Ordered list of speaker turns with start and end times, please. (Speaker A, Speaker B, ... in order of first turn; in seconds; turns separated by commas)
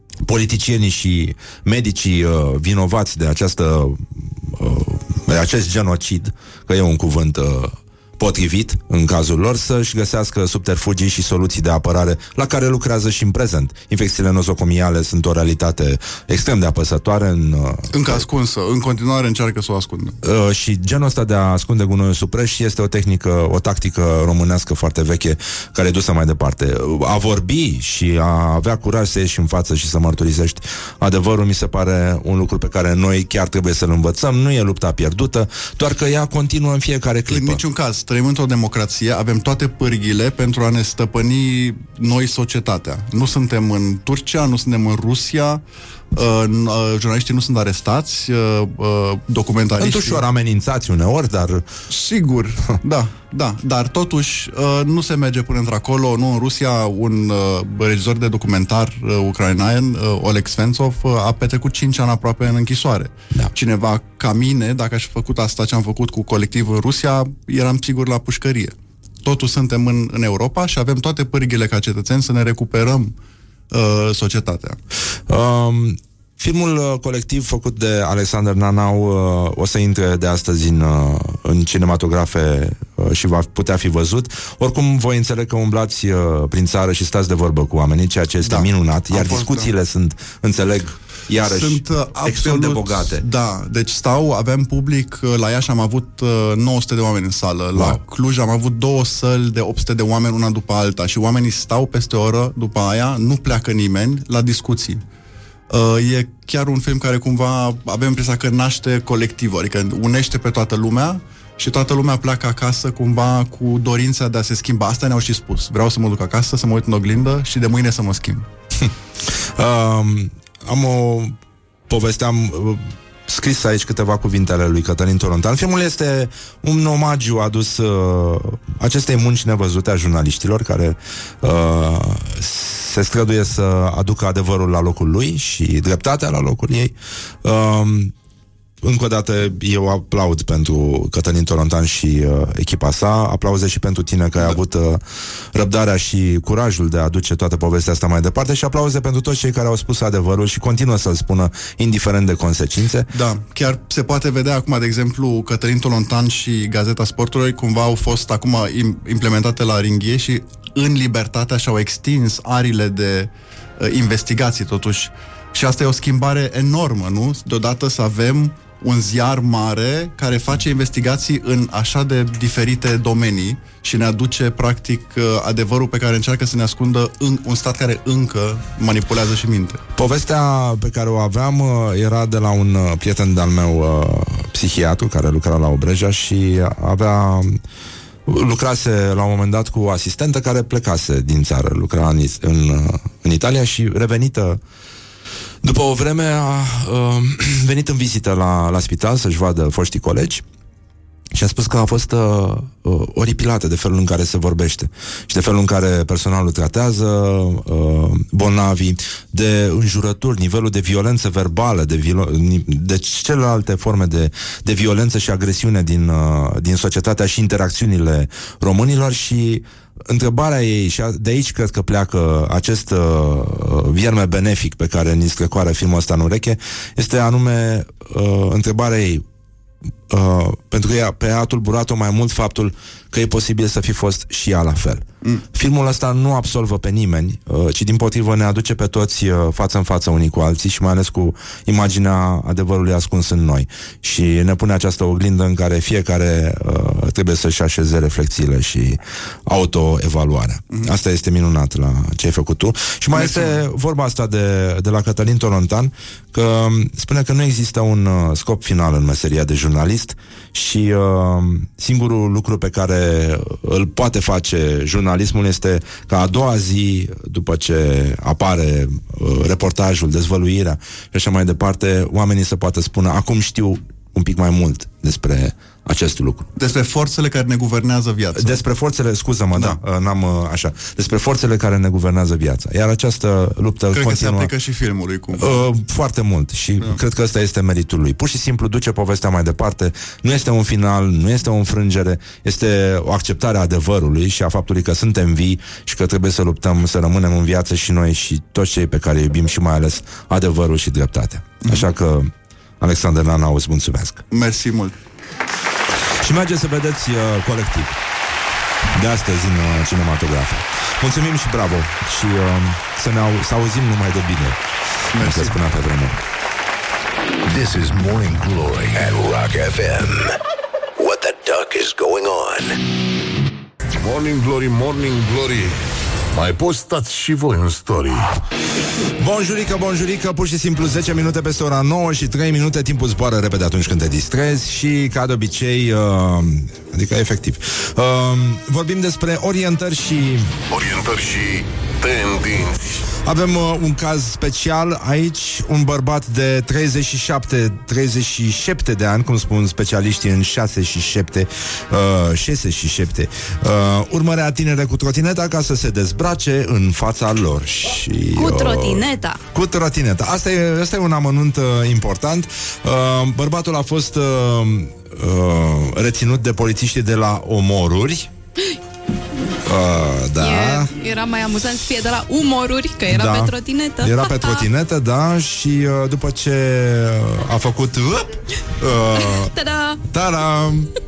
Speaker A: 0.2-18.2, Speaker B: 17.9-20.2, Speaker A: 20.2-37.6, Speaker B: 37.3-50.2, Speaker A: 49.8-51.7, Speaker B: 51.9-73.1, Speaker B: 73.7-74.8, Speaker A: 75.3-93.2, Speaker B: 88.4-89.7, Speaker B: 91.4-105.0, Speaker A: 97.8-98.0, Speaker B: 105.7-118.5, Speaker A: 119.6-121.4, Speaker A: 121.9-138.1, Speaker A: 138.8-145.0, Speaker A: 145.5-153.1, Speaker B: 153.1-179.8, Speaker A: 180.0-187.6, Speaker A: 188.3-194.6, Speaker A: 195.6-200.4, Speaker A: 201.3-229.2, Speaker A: 230.1-276.5, Speaker B: 253.1-253.6, Speaker B: 276.6-278.6, Speaker A: 278.4-284.5, Speaker B: 279.5-279.8, Speaker B: 283.9-285.6, Speaker A: 285.4-304.2, Speaker B: 304.3-304.9, Speaker A: 306.2-308.0, Speaker A: 308.9-314.6, Speaker A: 315.1-316.2, Speaker B: 315.2-315.5, Speaker C: 317.5-320.4, Speaker C: 321.0-322.8, Speaker D: 324.0-325.8, Speaker D: 326.3-328.4, Speaker A: 329.2-340.5, Speaker D: 340.7-343.0, Speaker A: 343.3-368.3, Speaker E: 358.3-359.4, Speaker A: 369.6-370.9, Speaker E: 370.4-374.7, Speaker A: 373.1-379.5, Speaker E: 379.1-380.0, Speaker A: 380.1-380.9